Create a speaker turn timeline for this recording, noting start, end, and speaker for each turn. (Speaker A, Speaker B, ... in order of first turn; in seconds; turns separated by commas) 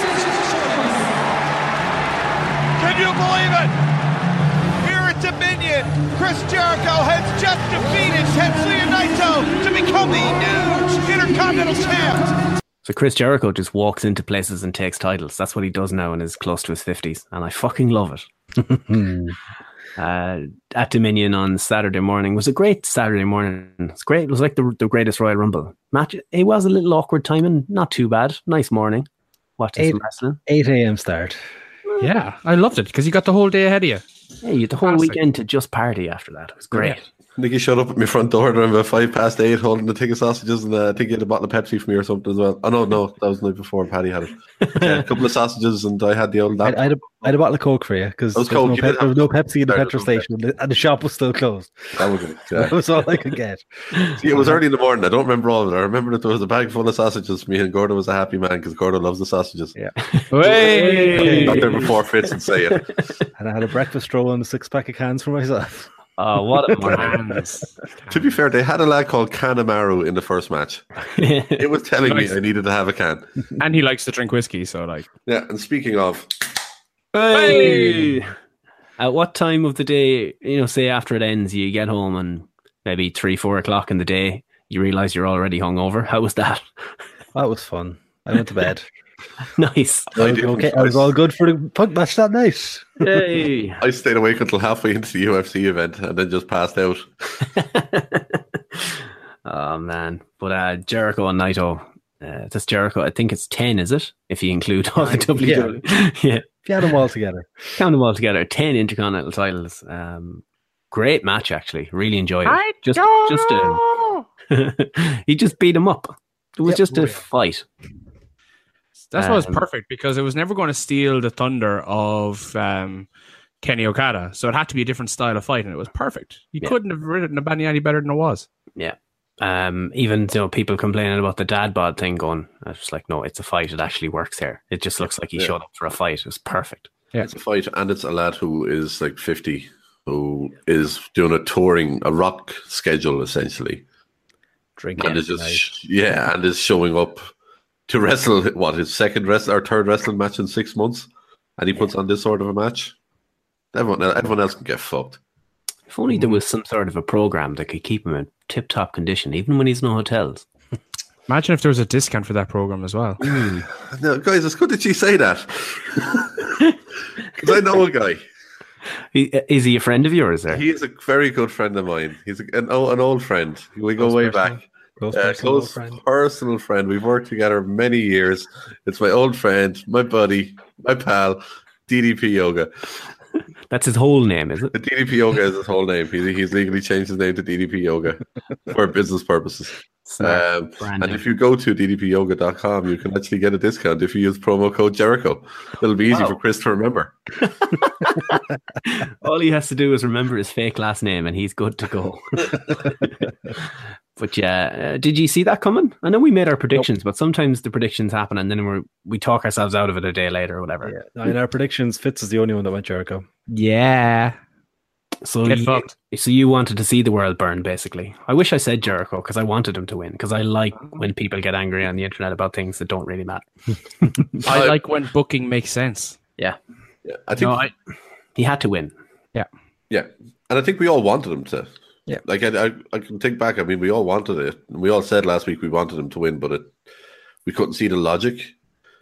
Speaker A: 2.8-3.7, Speaker A: 4.8-12.3, Speaker B: 12.8-18.3, Speaker C: 18.6-19.4, Speaker B: 20.0-30.4, Speaker C: 29.8-31.4, Speaker D: 32.0-34.0, Speaker B: 34.4-37.0, Speaker D: 34.8-35.2, Speaker E: 37.4-47.3, Speaker B: 44.6-45.0, Speaker C: 46.6-54.6, Speaker E: 48.3-50.2, Speaker E: 52.0-52.8, Speaker E: 54.2-59.7, Speaker B: 60.0-61.8, Speaker D: 60.3-61.9, Speaker C: 61.1-61.7, Speaker E: 61.2-62.9, Speaker C: 63.4-65.9, Speaker B: 66.2-67.2, Speaker C: 66.6-67.4, Speaker D: 66.9-68.3, Speaker E: 68.1-70.9, Speaker B: 71.1-71.6, Speaker E: 71.5-73.2, Speaker D: 72.0-72.3, Speaker D: 73.6-75.1, Speaker E: 75.2-76.3, Speaker B: 77.1-78.3, Speaker D: 77.3-78.1, Speaker B: 79.0-86.7, Speaker C: 87.3-88.9, Speaker B: 89.5-90.1, Speaker E: 90.1-91.1, Speaker C: 90.1-93.1, Speaker B: 93.0-93.8, Speaker E: 93.8-97.4, Speaker B: 97.5-106.5, Speaker C: 105.4-105.8, Speaker C: 106.6-107.8, Speaker B: 107.8-113.8, Speaker D: 112.5-114.1, Speaker B: 114.5-117.6, Speaker D: 119.1-123.1, Speaker B: 119.2-119.6, Speaker D: 123.6-128.5, Speaker B: 128.8-136.9, Speaker E: 137.2-143.8, Speaker C: 144.8-145.7, Speaker E: 145.0-147.3, Speaker E: 147.9-152.9, Speaker E: 153.7-155.2, Speaker B: 155.9-160.4, Speaker D: 161.3-163.2, Speaker B: 163.2-163.6, Speaker E: 163.8-168.2, Speaker B: 169.1-170.6, Speaker E: 170.5-182.7, Speaker C: 174.0-176.0, Speaker B: 183.7-184.7, Speaker E: 184.7-197.2, Speaker B: 190.0-191.2, Speaker B: 197.5-203.6, Speaker B: 204.2-210.9, Speaker C: 210.8-213.2, Speaker D: 213.5-214.4, Speaker B: 215.2-223.5, Speaker D: 215.4-215.9, Speaker B: 224.0-224.3, Speaker D: 224.4-226.2, Speaker E: 224.5-224.8, Speaker E: 227.0-227.6, Speaker B: 227.3-227.7, Speaker B: 228.3-228.9, Speaker E: 229.9-231.7, Speaker E: 232.2-236.7, Speaker E: 237.4-238.5